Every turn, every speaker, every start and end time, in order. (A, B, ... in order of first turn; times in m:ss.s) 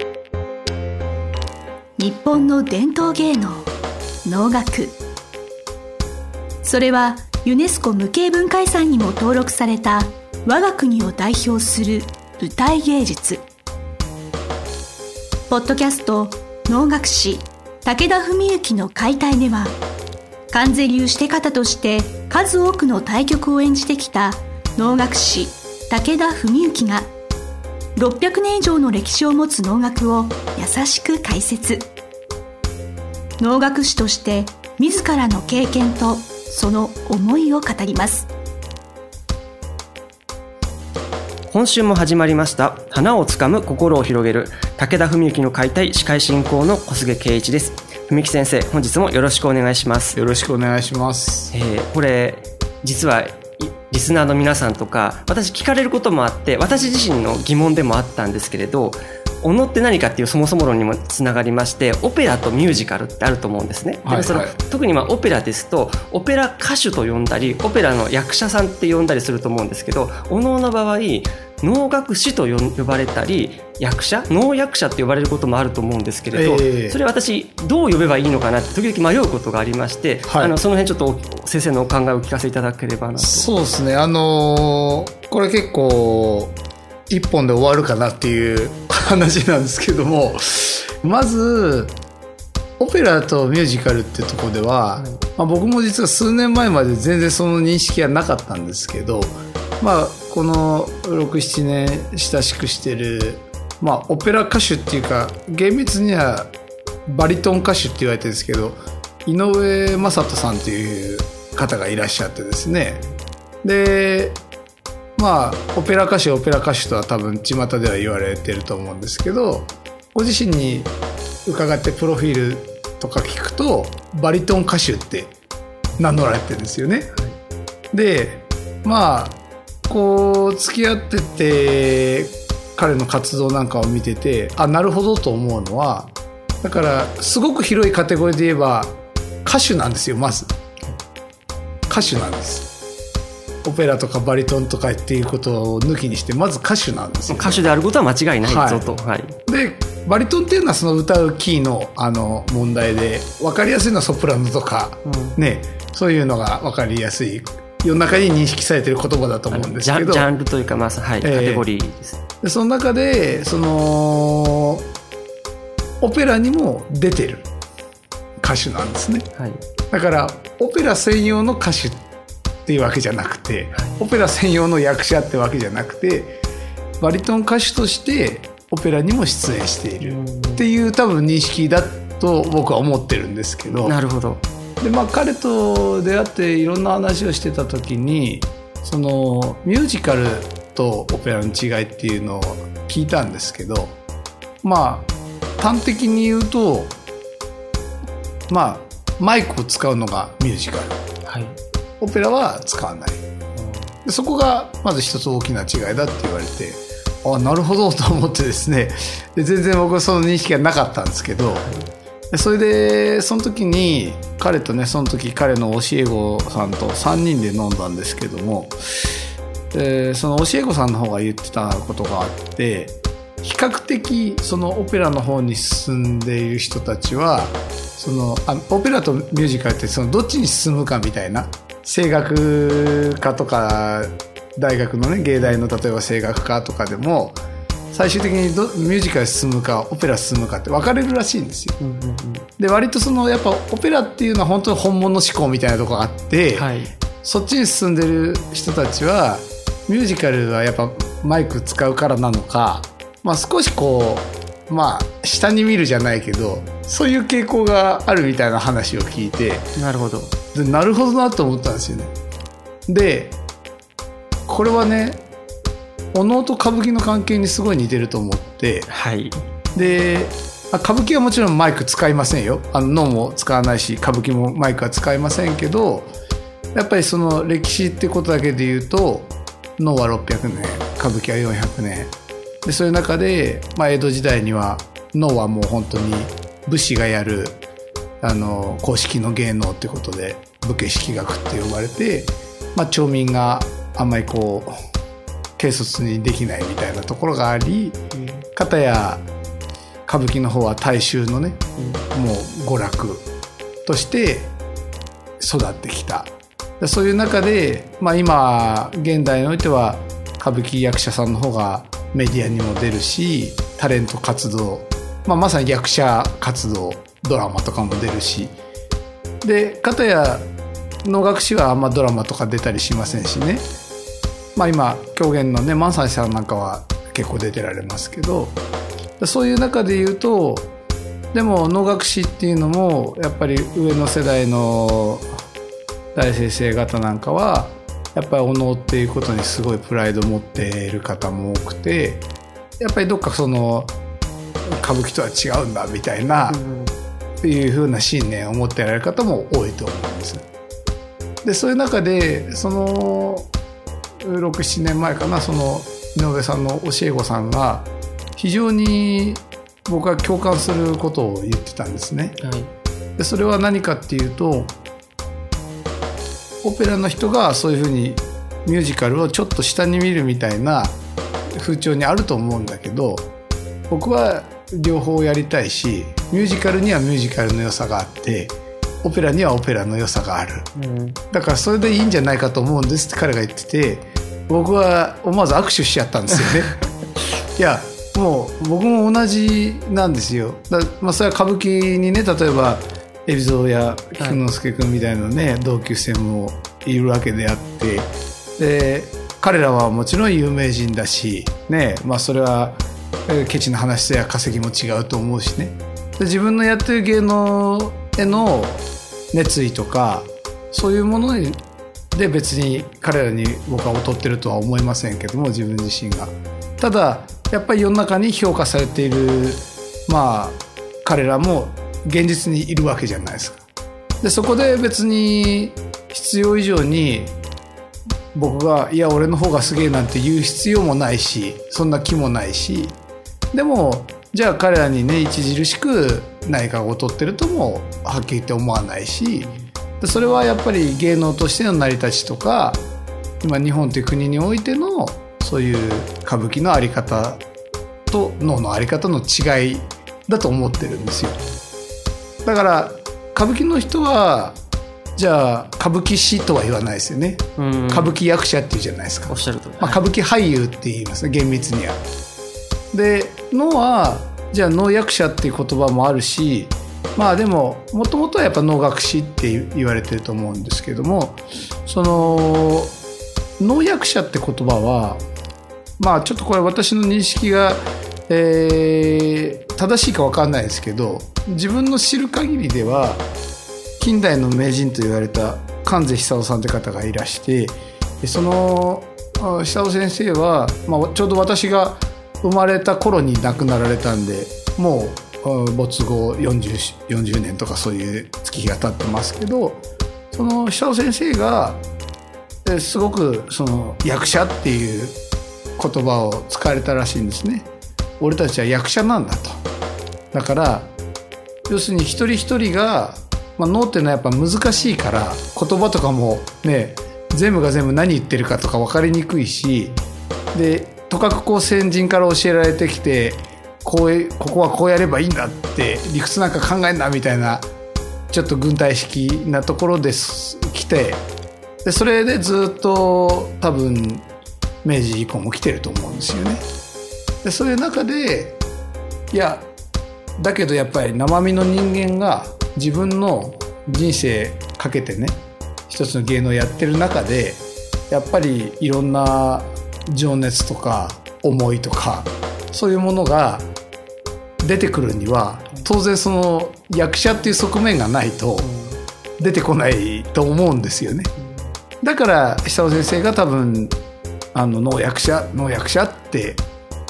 0:02.0-0:03.7 A
0:04.2-0:05.0 A
0:06.6-0:13.4 A
0:15.5-0:19.8 A
0:20.5-0:27.1 A
0:28.0-0:31.9 A
0:33.4-0:38.3 A
0:41.5-0:50.2 B
0:50.1-0:51.5 C
0:51.5-1:23.5 B
1:04.0-1:04.5 C
1:16.3-1:17.0 C
1:20.3-1:20.6 C
1:23.2-1:26.5 C
1:27.1-1:31.9 C
1:32.8-1:46.5 C
1:47.1-1:53.0 C
1:53.6-1:54.4 C
1:55.2-2:00.9 C
2:01.4-2:05.3 C
2:06.0-2:07.1 C
2:07.9-2:20.5 C
2:21.9-2:22.7 C
2:23.6-2:27.6 C
2:27.3-2:29.3 B
2:28.4-2:28.9 C
2:29.5-2:40.3 C
2:35.0-2:35.4 B
2:39.5-2:42.2 B
2:41.2-2:41.7 C
2:42.4-2:44.8 C
2:46.0-2:47.5 C
2:48.4-2:49.3 C
2:49.9-2:52.0 C
2:52.6-2:56.4 C
2:53.7-2:54.0 B
2:57.0-3:04.0 C
3:00.0-3:00.6 B
3:03.8-3:04.4 B
3:04.8-3:13.9 C
3:14.6-3:17.0 C
3:18.5-3:21.0 C
3:21.2-3:21.6 B
3:22.0-3:23.2 C
3:23.6-3:23.9 B
3:24.0-3:31.7 C
3:31.6-3:31.8 B
3:32.3-3:38.8 C
3:39.7-3:57.4 C
3:57.9-4:01.8 C
4:01.8-4:02.4 B
4:02.6-4:19.7 C
4:06.5-4:06.9 B
4:19.8-4:20.3 B
4:20.5-4:22.1 C
4:22.9-4:23.4 C
4:24.5-4:25.2 C
4:26.1-4:28.9 C
4:28.9-4:29.4 B
4:29.7-4:36.1 C
4:36.7-4:42.1 C
4:42.6-4:47.6 C
4:48.2-4:54.7 C
4:55.6-4:58.0 C
4:58.1-4:58.4 B
4:58.5-4:59.3 C
5:00.0-5:03.2 C
5:01.8-5:02.0 B
5:03.8-5:04.5 C
5:05.4-5:18.6 C
5:19.4-5:20.5 C
5:21.0-5:23.6 C
5:24.5-5:28.6 C
5:29.2-5:30.7 C
5:31.3-5:35.4 C
5:36.1-5:42.2 C
5:42.8-5:43.9 C
5:44.6-5:46.6 C
5:46.5-5:46.9 B
5:47.4-5:50.4 C
5:51.4-5:53.5 C
5:54.2-6:02.4 C
6:02.4-6:02.7 B
6:03.2-6:04.7 C
6:06.6-6:11.0 C
6:11.5-6:13.3 C
6:13.9-6:20.7 C
6:20.8-6:21.2 B
6:21.3-6:26.8 C
6:27.6-6:51.6 C
6:52.1-7:03.6 C
7:04.2-7:07.4 C
7:08.3-7:13.0 C
7:13.5-7:22.8 C
7:23.4-7:27.4 C
7:28.1-7:31.4 C
7:32.4-7:34.6 C
7:35.2-7:42.0 C
7:37.6-7:38.2 B
7:39.3-7:40.0 B
7:42.9-7:53.0 C
7:53.6-7:55.2 C
7:56.0-8:03.2 C
8:04.0-8:21.8 C
8:22.6-8:25.2 C
8:25.8-8:27.7 C
8:28.2-8:29.6 C
8:30.3-8:30.9 C
8:31.7-8:40.0 C
8:40.5-8:47.7 C
8:48.3-8:51.3 C
8:51.8-8:54.2 C
8:54.8-8:56.6 C
8:57.4-8:58.6 C
8:59.3-8:59.6 C
9:00.4-9:13.7 C
9:14.6-9:18.7 C
9:18.6-9:19.0 B
9:19.4-9:21.3 C
9:22.0-9:23.9 C
9:24.5-9:26.6 C